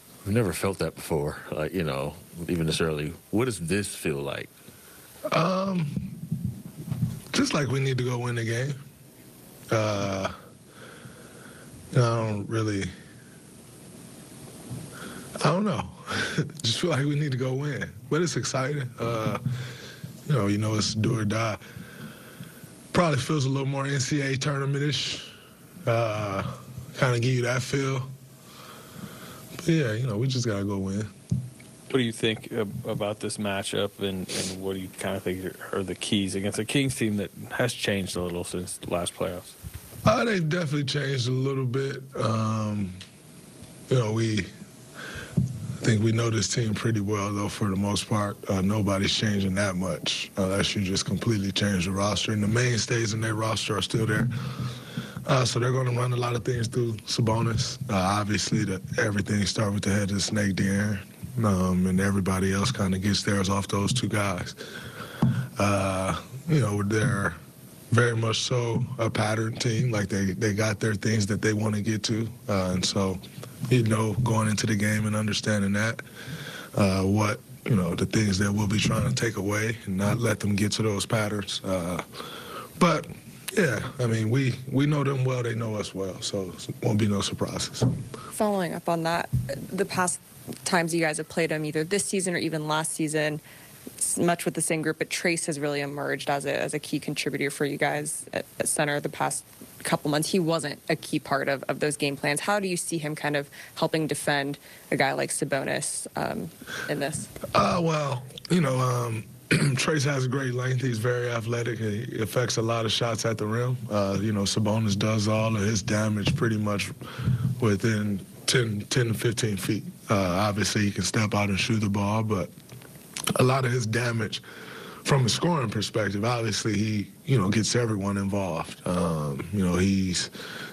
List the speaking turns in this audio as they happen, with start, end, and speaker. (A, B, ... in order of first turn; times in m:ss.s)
0:00.2-0:04.5 A
0:05.3-0:06.1 B
0:07.3-0:08.8 B
0:09.7-0:10.3 B
0:11.9-0:12.9 B
0:15.4-0:19.4 B
0:20.3-0:21.6 B
0:22.9-0:25.3 B
0:25.8-0:28.1 B
0:29.6-0:31.1 B
0:31.9-0:39.5 C
0:40.0-0:43.0 B
0:43.9-0:44.5 B
0:45.8-0:54.8 B
0:55.3-1:04.6 B
1:05.6-1:07.4 B
1:07.9-1:16.0 B
1:16.7-1:22.0 B
1:22.8-1:27.9 B
1:28.4-1:33.4 D
1:34.0-1:47.3 D
1:47.5-2:02.5 B
2:03.4-2:04.4 B
2:05.0-2:10.3 B